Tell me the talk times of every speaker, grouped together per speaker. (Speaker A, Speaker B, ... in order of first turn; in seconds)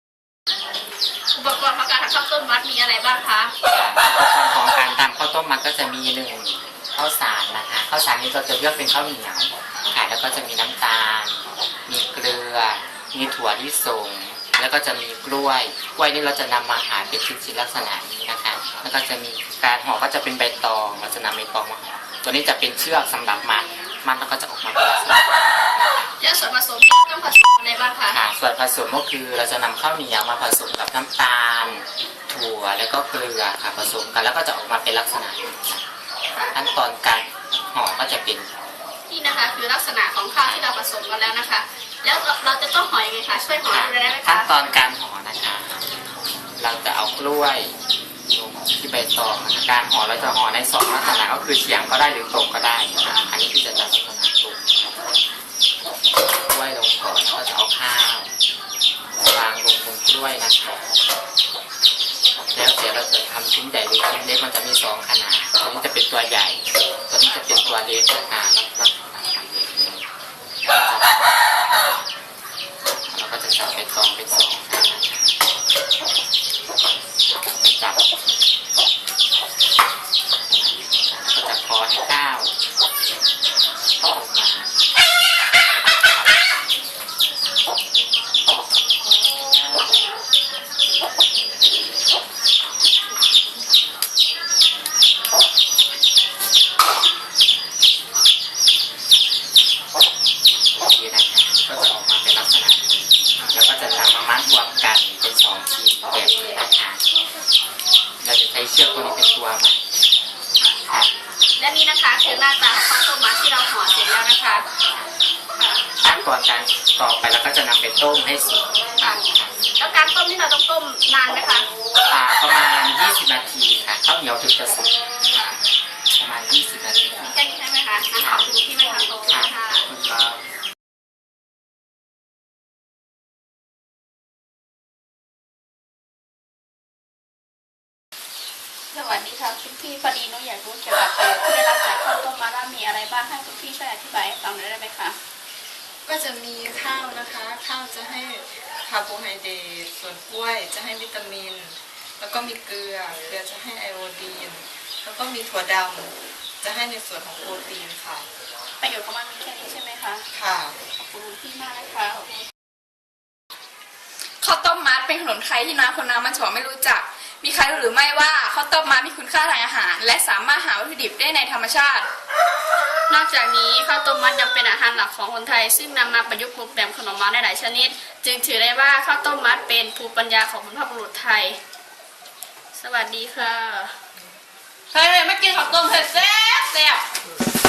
Speaker A: 1.3-3.5, 26.2-28.2, 39.1-44.8, 51.0-51.3, 111.6-114.7, 115.5-116.2, 119.0-121.7, 125.2-125.6, 127.2-129.9, 138.9-145.2, 158.8-160.2, 160.9-162.4, 173.1-181.6, 182.7-183.9, 184.9-187.0
Speaker B: 3.6-26.1, 28.1-35.8, 36.5-38.5, 43.7-45.9, 46.6-47.7, 48.3-54.7, 56.5-58.3, 59.2-60.8, 62.5-70.0, 70.7-71.2, 72.9-75.4, 77.3-78.0, 80.5-82.5, 84.0-84.8, 85.5-86.3, 100.7-107.0, 108.2-109.8, 110.9-111.1, 116.0-119.5, 122.1-125.0, 126.1-127.4, 128.2-128.6, 129.2-130.4
Speaker C: 146.1-158.2, 160.3-160.8
Speaker D: 164.4-172.1